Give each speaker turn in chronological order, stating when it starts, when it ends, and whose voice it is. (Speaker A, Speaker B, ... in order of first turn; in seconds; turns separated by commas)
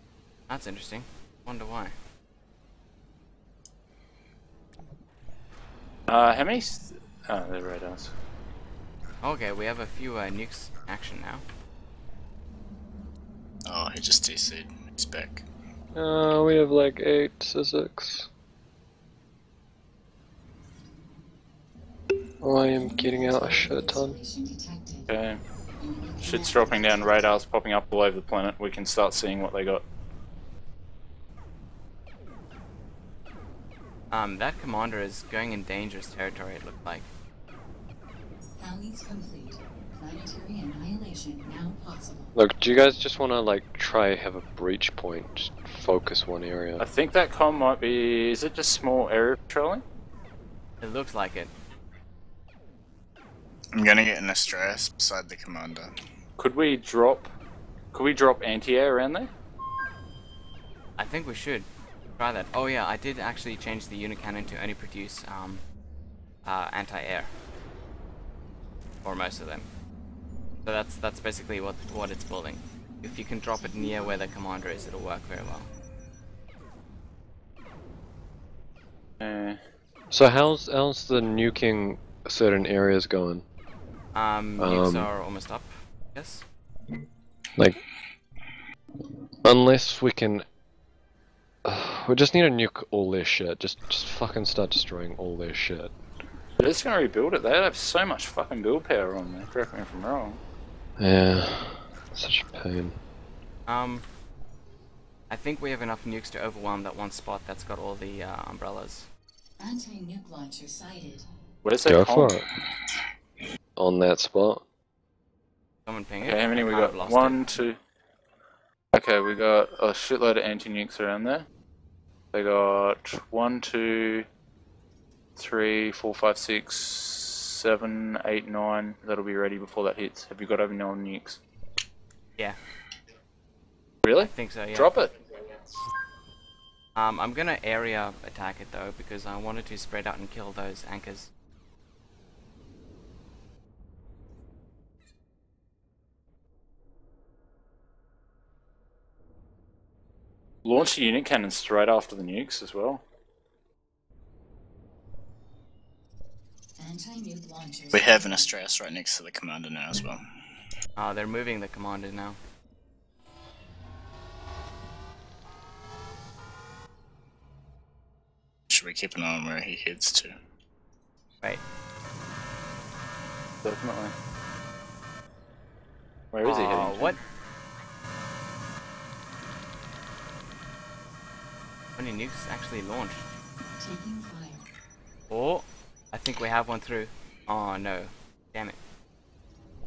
Speaker A: 0.5-1.9, Speaker B: 6.1-8.1, Speaker A: 9.2-11.4, Speaker C: 13.7-15.4, Speaker D: 15.9-18.3, Speaker D: 22.4-24.2, Speaker E: 22.6-25.1, Speaker B: 25.1-25.4, Speaker E: 25.8-27.4, Speaker B: 26.2-29.8, Speaker A: 34.1-37.1, Speaker E: 38.5-42.3, Speaker D: 42.3-46.8, Speaker B: 46.8-49.8, Speaker A: 50.8-51.5, Speaker C: 53.7-55.9, Speaker B: 56.4-57.3, Speaker B: 57.9-59.3, Speaker A: 61.0-65.6, Speaker A: 66.4-67.3, Speaker A: 69.0-69.7, Speaker A: 70.6-75.7, Speaker E: 73.6-74.4, Speaker B: 79.2-79.6, Speaker D: 80.1-83.4, Speaker A: 84.1-86.4, Speaker D: 84.6-85.1, Speaker D: 89.4-90.4, Speaker D: 91.6-95.9, Speaker B: 96.6-100.4, Speaker D: 101.0-103.0, Speaker A: 103.7-104.0, Speaker A: 105.3-109.1, Speaker E: 109.6-111.3, Speaker B: 111.6-112.3, Speaker D: 111.8-112.5, Speaker D: 113.8-114.6, Speaker A: 115.8-117.5, Speaker B: 116.2-117.8, Speaker B: 118.9-121.5, Speaker B: 122.3-124.2, Speaker B: 125.4-131.4, Speaker B: 134.0-135.1, Speaker A: 134.2-134.9, Speaker A: 136.9-141.3, Speaker B: 150.6-153.0, Speaker E: 156.8-158.6, Speaker C: 157.9-160.2, Speaker A: 161.0-162.4, Speaker C: 168.7-170.3, Speaker B: 173.6-174.1, Speaker B: 176.3-177.2, Speaker A: 176.4-177.2, Speaker A: 181.9-183.2, Speaker E: 183.6-184.7, Speaker A: 185.3-188.8